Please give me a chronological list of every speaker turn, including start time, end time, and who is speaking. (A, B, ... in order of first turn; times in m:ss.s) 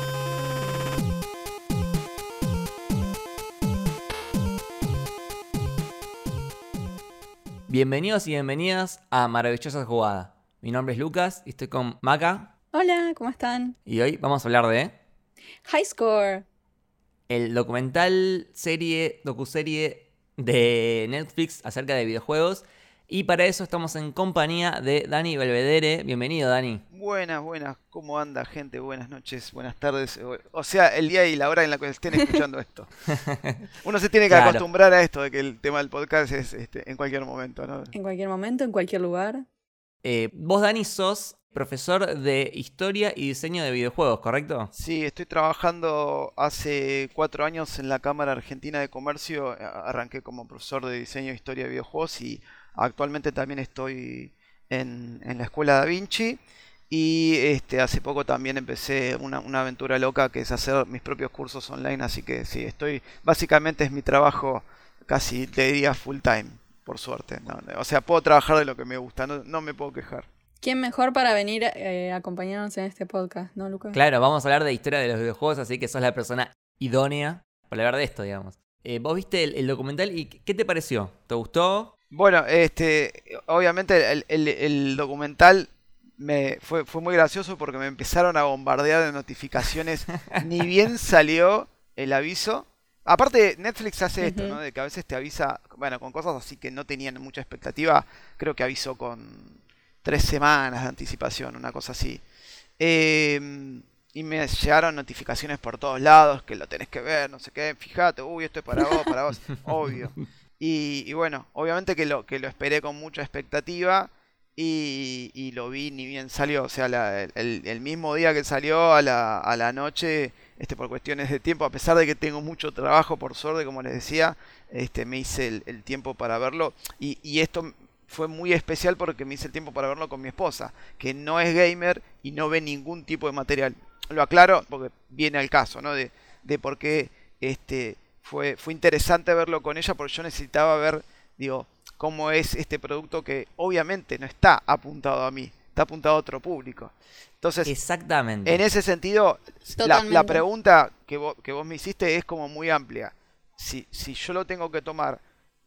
0:07.7-0:12.5 A
0:12.7-0:13.8 B
0:13.9-0:14.9 A
0:15.6-0:16.4 B
0:17.3-0:26.8 A
0:26.9-0:32.9 C
0:33.1-0:33.6 A
0:33.8-0:37.9 C
0:34.3-0:34.6 A
0:37.9-0:39.4 B
0:40.0-0:44.7 A
0:44.8-1:10.3 C
1:10.6-1:14.0 B
1:13.9-1:21.9 A
1:22.1-1:42.2 C
1:34.2-1:34.6 B
1:42.8-2:27.7 C
2:27.7-2:28.6 A
2:28.4-2:35.2 C
2:29.8-2:30.4 B